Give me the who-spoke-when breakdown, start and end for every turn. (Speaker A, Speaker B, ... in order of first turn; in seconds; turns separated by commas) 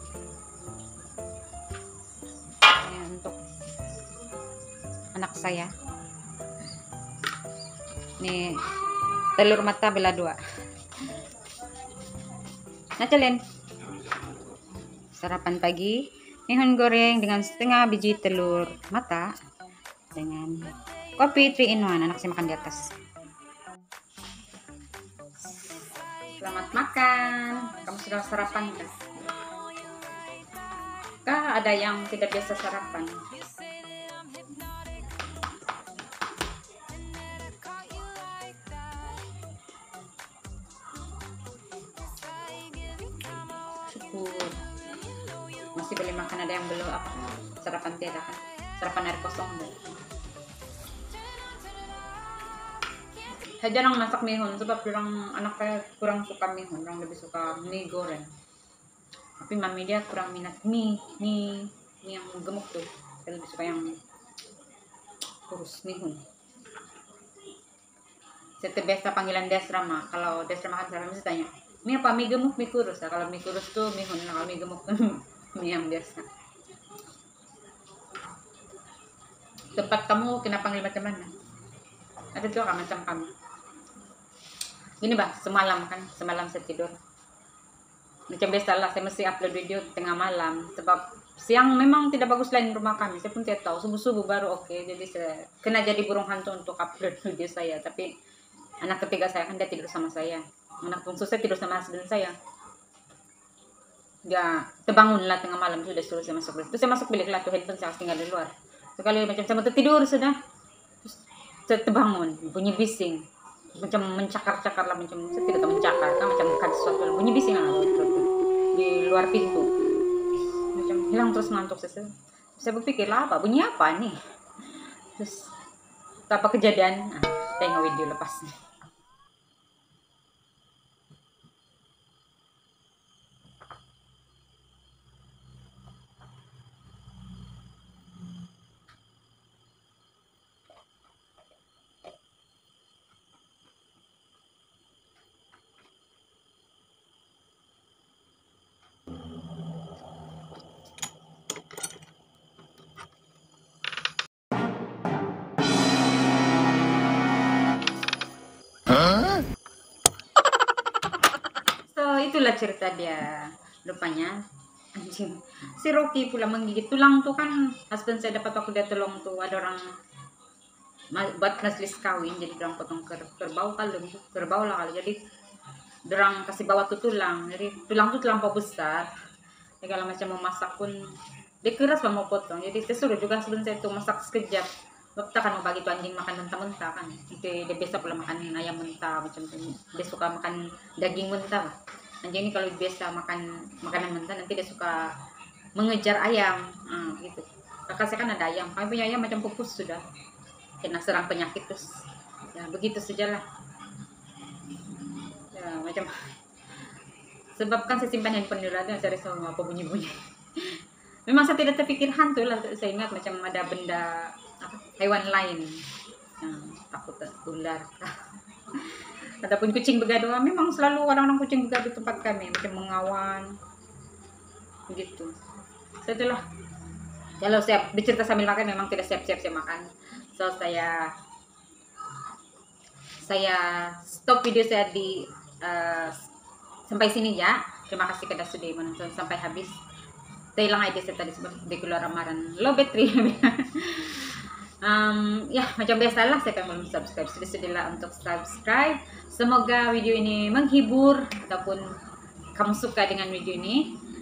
Speaker A: 2.7-3.4, Speaker A: 5.1-5.7, Speaker A: 8.2-8.8, Speaker A: 9.3-10.4, Speaker A: 13.0-13.4, Speaker A: 15.2-19.3, Speaker A: 20.1-22.9, Speaker A: 26.4-28.9, Speaker A: 31.2-33.3, Speaker A: 43.9-44.6, Speaker A: 45.8-49.8, Speaker A: 53.6-58.3, Speaker A: 59.4-63.9, Speaker A: 65.5-66.2, Speaker A: 68.6-76.3, Speaker A: 79.8-81.3, Speaker A: 82.3-83.3, Speaker A: 85.0-87.0, Speaker A: 88.3-98.1, Speaker A: 98.8-102.4, Speaker A: 104.2-110.4, Speaker A: 111.0-113.2, Speaker A: 113.8-119.7, Speaker A: 120.7-124.2, Speaker A: 125.1-125.5, Speaker A: 126.3-128.6, Speaker A: 161.9-164.4, Speaker A: 164.9-169.8, Speaker A: 171.1-175.2, Speaker A: 176.1-179.1, Speaker A: 179.8-181.0, Speaker A: 181.6-195.1, Speaker A: 195.8-200.0, Speaker A: 200.8-202.0, Speaker A: 202.5-203.4, Speaker A: 205.5-206.2, Speaker A: 207.6-215.8, Speaker A: 216.4-218.2, Speaker A: 218.7-223.6, Speaker A: 224.9-225.3, Speaker A: 226.0-226.4, Speaker A: 227.4-231.1, Speaker A: 233.2-236.3, Speaker A: 236.9-239.8, Speaker A: 240.6-251.8, Speaker A: 252.5-254.0